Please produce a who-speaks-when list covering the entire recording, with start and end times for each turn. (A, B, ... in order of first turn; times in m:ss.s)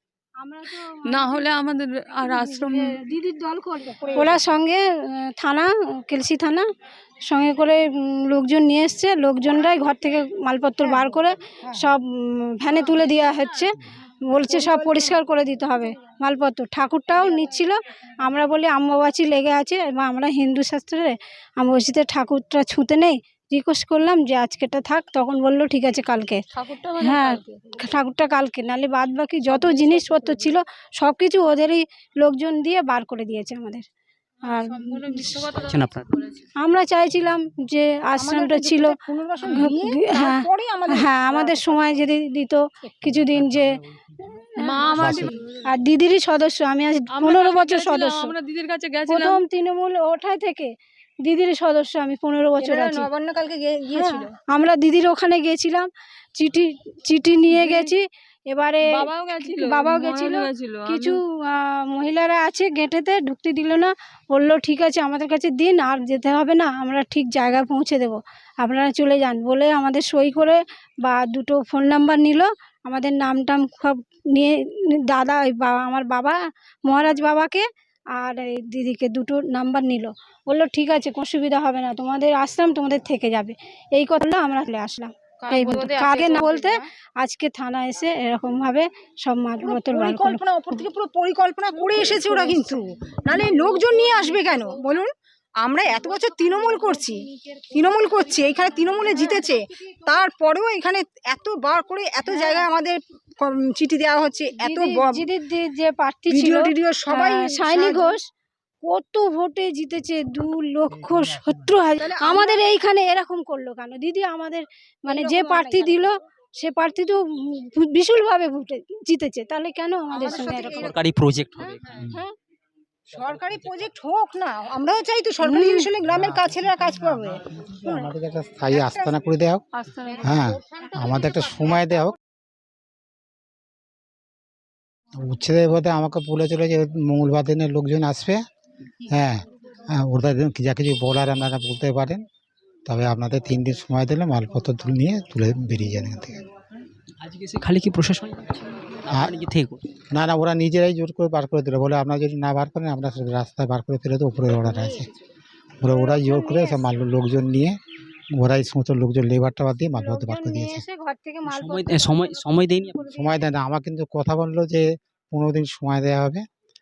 0:00.4-0:01.6 A
0:01.0-0:02.9 B
0:02.2-0:06.7 A
0:03.9-0:04.5 C
0:07.3-0:26.4 A
0:14.5-0:15.2 C
0:26.5-0:27.6 B
0:27.0-0:33.8 A
0:34.4-0:35.5 A
0:34.8-0:36.4 B
0:35.5-0:36.1 D
0:36.6-0:48.3 A
0:38.2-0:42.0 C
0:39.4-0:39.7 B
0:44.6-0:45.4 B
0:44.9-0:45.3 E
0:47.1-0:49.4 B
0:49.1-0:53.1 A
0:52.6-0:54.3 C
0:53.9-1:30.8 A
0:57.5-0:57.9 B
0:58.9-1:01.2 B
1:25.5-1:26.7 B
1:29.6-1:45.3 C
1:32.1-1:32.8 A
1:39.0-1:39.5 A
1:42.3-1:42.7 A
1:44.6-1:48.2 A
1:46.3-1:48.2 C
1:48.8-2:01.0 A
1:50.9-1:51.8 E
1:52.0-1:52.6 C
1:55.1-1:56.1 C
2:00.1-2:01.0 C
2:00.6-2:02.0 D
2:01.9-2:02.3 A
2:03.1-2:08.1 C
2:05.4-2:05.9 A
2:06.1-2:09.6 E
2:08.7-2:09.2 C
2:09.7-2:10.4 B
2:10.2-2:12.2 E
2:15.1-2:18.4 E
2:19.1-2:22.2 E
2:22.9-2:26.5 E
2:27.2-2:29.9 D
2:29.1-2:29.4 E
2:30.1-2:35.1 E
2:35.8-2:37.8 E
2:35.8-2:36.9 A
2:38.3-2:40.9 E
2:40.0-2:43.4 A
2:41.4-2:43.0 D
2:43.0-2:46.4 E